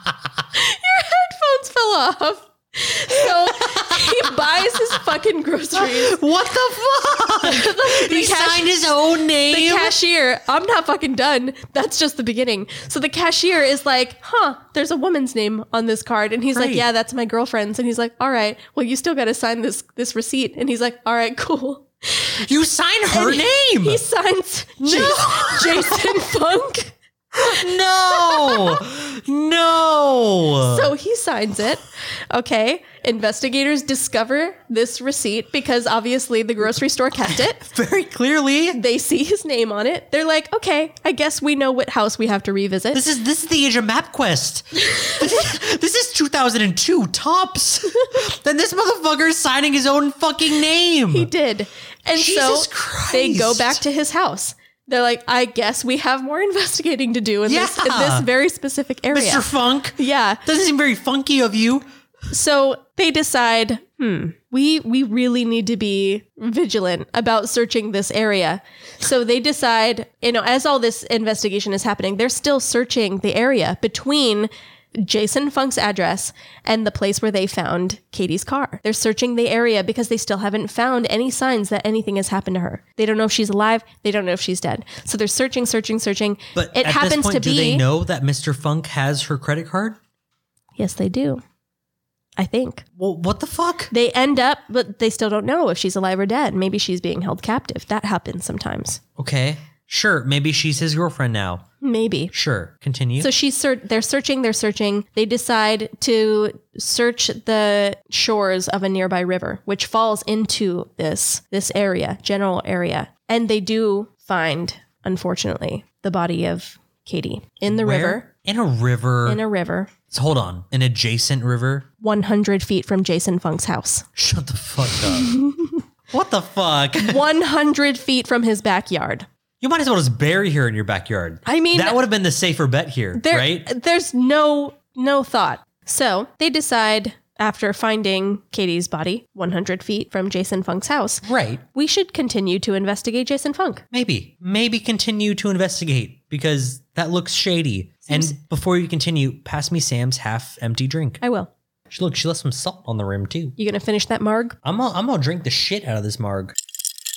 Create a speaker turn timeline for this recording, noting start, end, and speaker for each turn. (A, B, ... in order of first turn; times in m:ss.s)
0:00.5-0:06.2 A
0:03.4-0:04.9 B
0:05.7-0:10.0 B
0:07.4-0:08.8 A
0:09.5-0:22.4 A
0:16.5-0:16.8 B
0:22.4-0:24.0 B
0:23.1-0:26.9 A
0:24.8-0:26.2 B
0:27.3-0:30.9 B
0:27.5-0:28.8 A
0:30.7-0:37.6 A
0:37.5-0:38.8 B
0:38.7-0:43.0 A
0:42.9-0:51.3 B
0:44.8-0:45.4 A
0:51.1-0:59.4 A
0:52.1-0:53.8 B
0:57.4-0:58.3 B
0:59.1-1:01.8 B
1:00.0-1:00.4 A
1:02.3-1:27.8 A
1:26.5-1:30.0 B
1:30.8-1:31.4 A
1:32.4-1:32.8 A
1:33.0-1:33.9 B
1:33.9-1:39.0 A
1:39.2-1:41.6 B
1:41.8-1:42.3 A
1:42.3-1:43.3 B
1:43.2-1:58.2 A
1:57.7-1:59.4 B
1:59.2-1:59.9 A
2:00.1-2:01.9 B
2:02.0-2:04.1 A
2:04.2-2:05.4 B
2:05.0-2:05.8 A
2:06.1-2:07.2 B
2:07.0-2:09.3 A
2:09.6-2:13.6 B
2:11.4-2:12.0 A
2:13.2-2:21.2 A
2:21.2-2:21.6 B
2:21.7-2:23.8 A
2:23.9-2:31.2 B
2:31.2-2:31.5 A
2:31.9-2:33.5 B
2:33.6-2:34.6 A
2:34.6-2:36.6 B